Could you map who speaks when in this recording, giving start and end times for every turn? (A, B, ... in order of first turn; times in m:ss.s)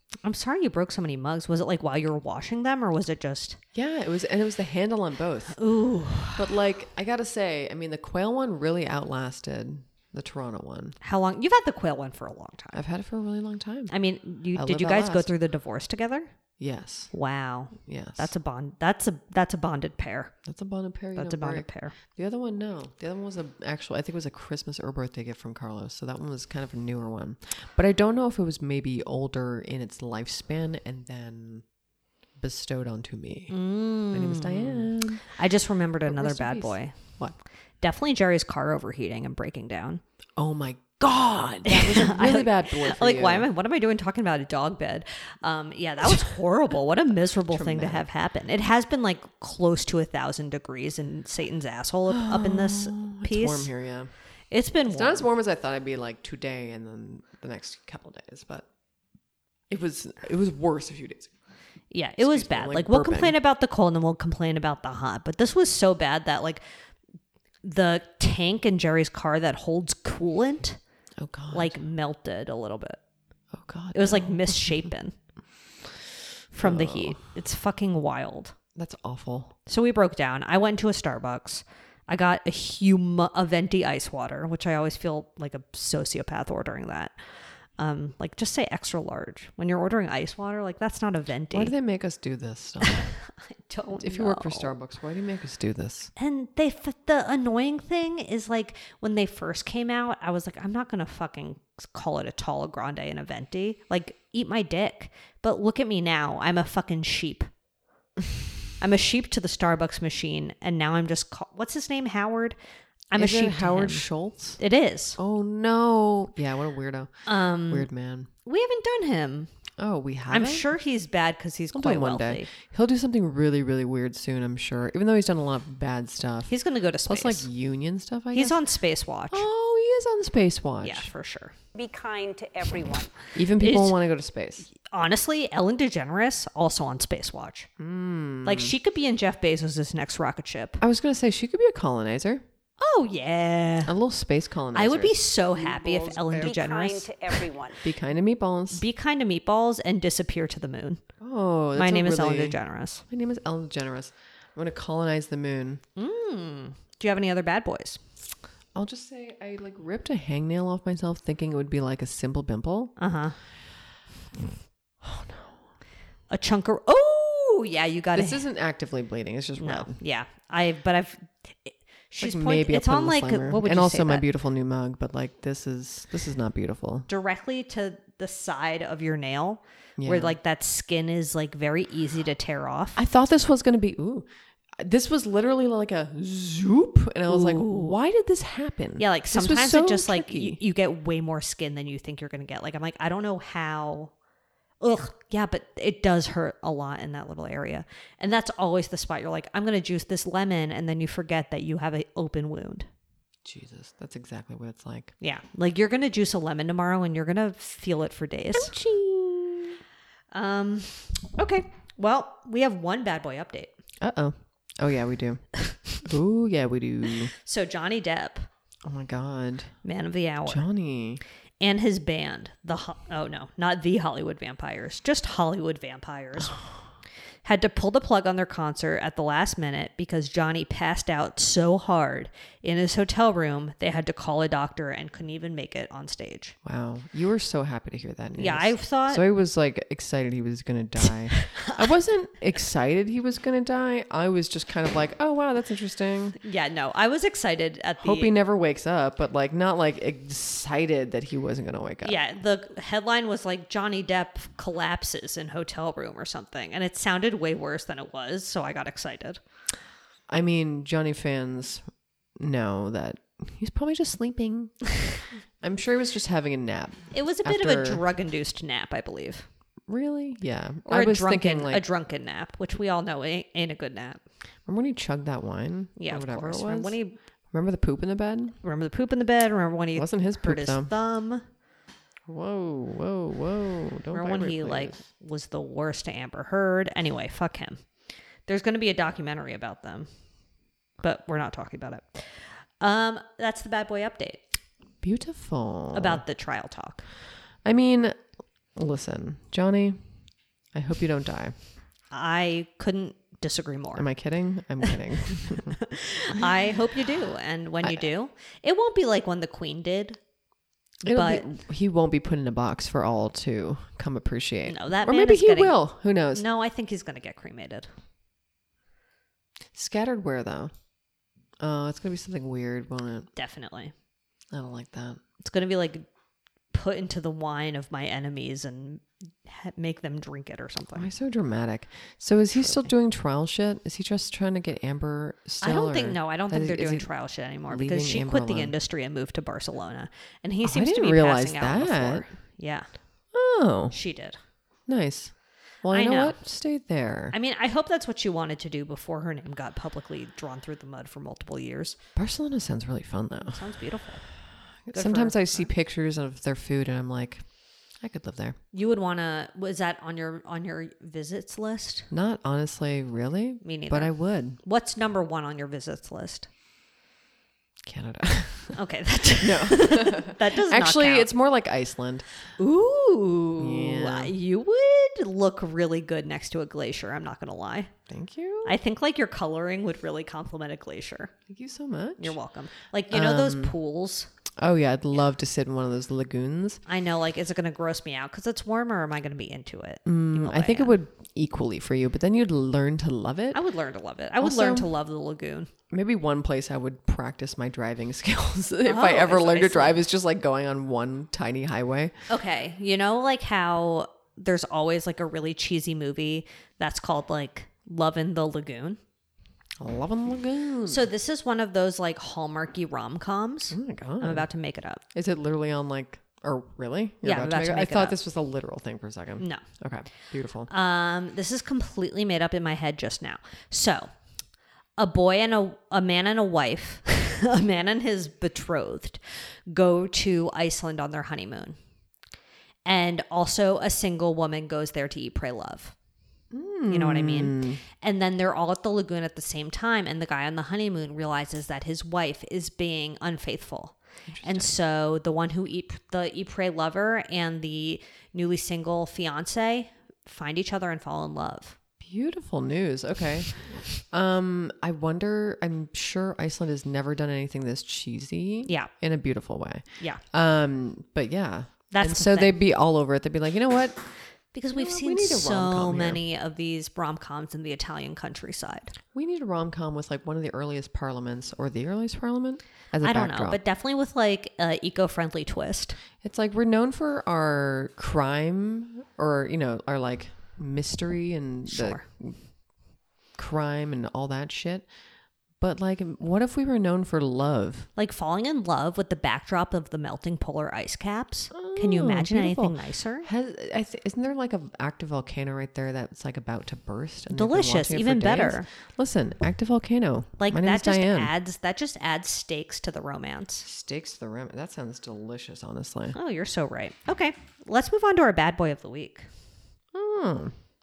0:00.2-0:03.6 A
0:03.7-0:05.6 B
0:05.6-0:06.4 A
0:06.3-0:11.0 B
0:11.0-0:12.8 A
0:12.7-0:13.9 B
0:13.9-0:16.3 A
0:14.5-0:15.3 B
0:16.6-0:17.1 B
0:17.1-0:20.3 A
0:17.8-0:18.3 B
0:20.4-0:31.6 B
0:21.2-0:22.0 A
0:32.4-0:33.6 B
0:33.5-0:37.0 A
0:34.1-0:35.2 B
0:36.1-0:37.4 B
0:37.8-0:40.0 A
0:40.4-0:43.5 B
0:41.6-0:53.7 A
0:47.5-0:48.0 B
0:52.1-0:54.1 B
0:54.5-0:55.2 A
0:54.9-0:58.7 B
0:59.7-1:01.3 B
1:01.9-1:06.6 A
1:02.2-1:03.4 B
1:07.6-1:10.8 A
1:11.2-1:11.8 B
1:11.5-1:13.0 A
1:13.5-1:14.8 B
1:13.9-1:15.2 A
1:16.5-1:18.5 A
1:16.6-1:17.2 B
1:18.7-1:19.6 B
1:19.7-1:27.1 A
1:27.8-1:31.7 A
1:31.5-1:33.1 B
1:32.9-1:34.7 A
1:33.9-1:36.1 B
1:36.2-1:47.5 A
1:48.8-1:52.6 A
1:53.1-1:54.0 A
1:53.2-1:54.6 B
1:54.6-1:55.2 A
1:55.2-1:58.3 B
1:57.3-1:57.9 A
1:58.4-1:59.5 A
1:59.8-2:00.7 B
2:00.3-2:02.5 A
2:01.7-2:06.5 B
2:06.5-2:07.5 A
2:07.0-2:08.6 B
2:08.3-2:09.4 A
2:09.3-2:11.1 B
2:10.8-2:11.5 A
2:11.7-2:13.1 C
2:13.3-2:14.7 B
2:13.6-2:14.0 A
2:14.7-2:17.7 A
2:17.8-2:18.7 B
2:18.4-2:20.8 A
2:20.8-2:22.4 B
2:22.8-2:23.9 A
2:23.8-2:25.2 B
2:24.7-2:27.4 A
2:25.6-2:27.8 C
2:27.8-2:28.8 B
2:28.7-2:31.0 A
2:31.2-2:35.8 B
2:31.8-2:33.0 A
2:36.0-2:38.0 A
2:38.7-2:42.9 B
2:43.0-2:43.4 A
2:45.0-2:45.5 B
2:46.3-2:48.4 A
2:48.1-2:50.0 B
2:49.6-2:54.2 A
2:52.2-2:57.1 B
2:57.1-3:03.0 A
3:00.0-3:00.4 B
3:03.0-3:04.3 B
3:04.8-3:10.6 B
3:07.3-3:07.9 A
3:09.0-3:14.1 A
3:14.8-3:22.9 A
3:23.4-3:25.1 B
3:25.2-3:28.7 A
3:28.5-3:29.8 B
3:30.3-3:33.7 A
3:34.0-3:37.3 B
3:37.4-3:38.5 A
3:38.8-3:39.7 B
3:39.8-3:40.7 A
3:40.5-3:41.2 B
3:41.6-3:46.6 A
3:47.4-3:56.5 A
3:56.6-4:06.4 B
3:58.4-3:59.2 A
4:01.4-4:01.9 A
4:06.4-4:08.3 A
4:08.0-4:12.2 B
4:12.0-4:19.4 A
4:20.3-4:21.8 B
4:22.4-4:28.0 B
4:27.1-4:29.5 A
4:29.9-4:31.8 B
4:30.8-4:34.2 A
4:34.6-4:37.0 B
4:36.0-4:37.2 A
4:37.5-4:38.6 B
4:38.6-4:41.4 A
4:39.9-4:40.9 B
4:42.3-4:45.0 B
4:44.1-4:47.8 A
4:48.5-4:50.1 A
4:51.0-4:54.4 A
4:55.0-4:56.2 B
4:55.9-4:57.0 A
4:57.6-4:58.2 B
4:58.7-5:00.0 B
5:00.7-5:01.5 B
5:02.1-5:04.0 A
5:03.9-5:05.8 B
5:05.4-5:10.2 A
5:07.8-5:08.1 B
5:11.0-5:16.4 B
5:11.1-5:11.5 A
5:14.7-5:15.8 A
5:16.3-5:17.9 A
5:19.7-5:20.7 B
5:21.6-5:23.3 B
5:23.4-5:23.9 A
5:24.5-5:25.2 B
5:25.4-5:26.0 A
5:26.7-5:31.1 A
5:30.9-5:37.1 B
5:32.6-5:32.9 A
5:35.6-5:42.9 A
5:37.7-5:38.7 B
5:40.6-5:42.3 B
5:43.3-5:44.0 B
5:43.9-5:44.4 A
5:44.9-5:47.3 B
5:45.9-5:46.4 A
5:47.3-5:52.0 A
5:52.2-5:53.6 B
5:53.4-5:54.2 A
5:54.9-5:57.4 B
5:54.9-5:55.7 A
5:58.0-5:58.6 B
5:58.7-6:02.1 A
6:02.1-6:04.6 B
6:03.6-6:06.5 A
6:07.8-6:08.8 B
6:08.7-6:11.3 A
6:09.4-6:12.3 B
6:12.6-6:17.9 A
6:13.6-6:14.3 B
6:18.1-6:18.8 B
6:18.6-6:21.3 A
6:21.5-6:22.4 B
6:22.2-6:24.3 A
6:23.1-6:23.7 B
6:24.6-6:26.8 B
6:26.8-6:31.0 A
6:30.0-6:33.6 B
6:33.5-6:35.7 A
6:34.4-6:34.9 B
6:35.9-6:42.1 B
6:38.8-6:40.0 A
6:42.3-6:49.0 A
6:49.8-6:51.1 B
6:50.9-6:55.0 A
6:53.7-6:54.5 B
6:55.1-7:00.7 B
6:57.2-6:58.2 A
7:00.7-7:04.1 A
7:05.0-7:11.8 A
7:12.8-7:15.9 A
7:16.5-7:17.8 B
7:16.9-7:31.8 A
7:24.3-7:24.7 B
7:32.0-7:44.0 B
7:41.9-7:42.5 A
7:44.5-7:48.9 A
7:44.7-7:46.2 B
7:49.1-7:53.6 B
7:53.0-7:56.0 A
7:56.2-8:02.4 B
8:01.7-8:02.0 A
8:03.4-8:04.9 B
8:05.6-8:07.9 B
8:08.0-8:13.3 A
8:11.5-8:21.3 B
8:17.3-8:18.7 A
8:20.4-8:23.6 A
8:23.6-8:26.2 B
8:26.1-8:29.3 A
8:29.9-8:30.5 B